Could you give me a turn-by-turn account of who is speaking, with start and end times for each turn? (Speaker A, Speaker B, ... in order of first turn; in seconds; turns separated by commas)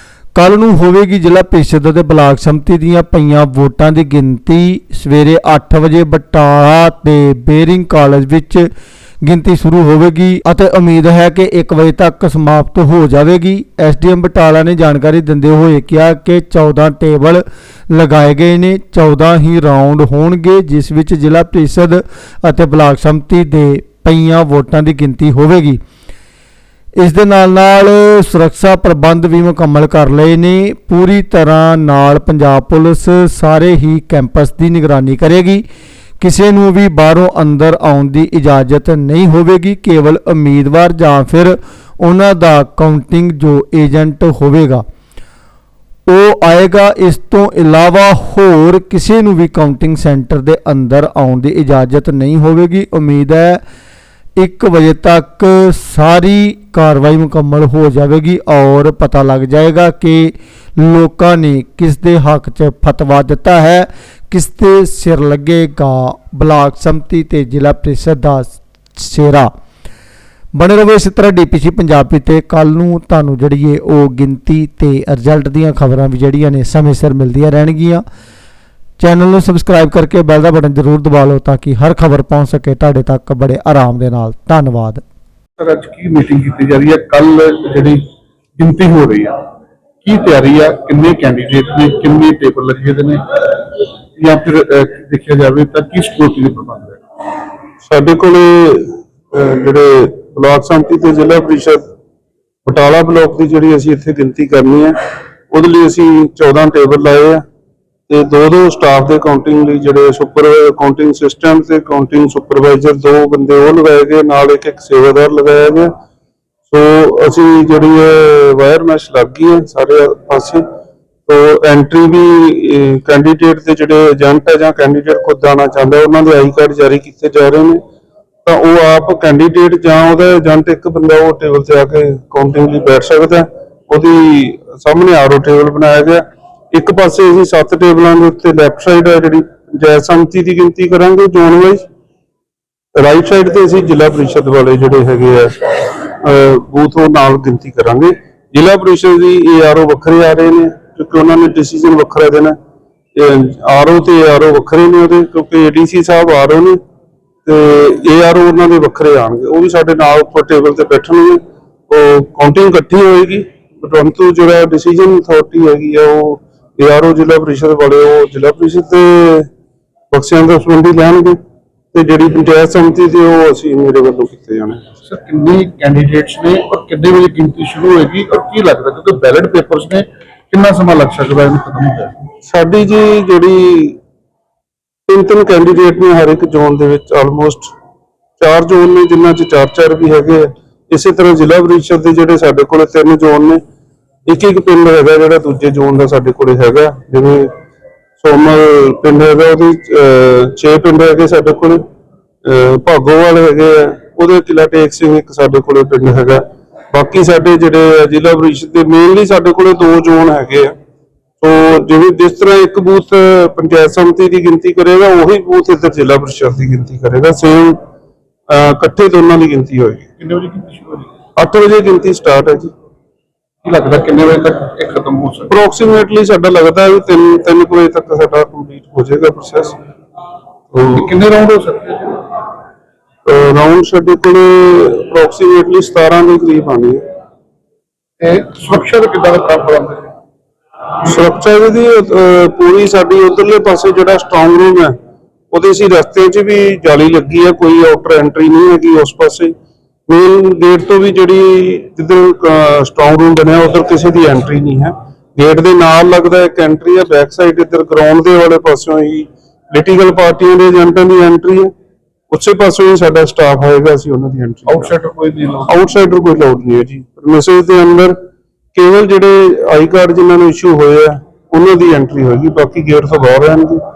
Speaker A: 0.4-8.7, Speaker A: 9.2-25.8, Speaker A: 27.0-35.6, Speaker A: 36.2-44.8, Speaker A: 46.1-53.6, Speaker A: 54.4-69.5, Speaker A: 70.5-78.0, Speaker A: 79.0-85.0, Speaker B: 85.6-88.0, Speaker B: 88.6-89.4, Speaker B: 90.0-97.0, Speaker C: 97.8-101.8, Speaker C: 102.7-104.9, Speaker C: 105.5-107.4, Speaker C: 108.1-115.9, Speaker C: 116.7-120.6, Speaker C: 121.3-127.8, Speaker C: 128.4-141.8, Speaker C: 143.0-152.6, Speaker C: 153.2-156.8, Speaker C: 157.5-169.5, Speaker C: 170.1-171.4, Speaker C: 171.9-174.8, Speaker B: 175.1-182.2, Speaker C: 182.4-184.0, Speaker C: 185.1-187.7, Speaker C: 188.4-193.6, Speaker C: 194.3-197.5, Speaker C: 198.2-201.8, Speaker C: 202.4-210.7, Speaker C: 211.4-217.8, Speaker C: 218.5-220.1, Speaker B: 220.2-221.1, Speaker C: 221.4-222.7, Speaker B: 223.6-225.5, Speaker C: 225.5-229.8, Speaker C: 230.7-231.1, Speaker B: 230.8-232.2, Speaker C: 233.2-237.0, Speaker B: 238.2-240.1, Speaker C: 241.0-244.9, Speaker C: 245.5-249.5, Speaker C: 250.1-261.7, Speaker C: 262.3-264.9, Speaker B: 264.7-265.7, Speaker C: 265.7-268.2, Speaker C: 268.7-273.8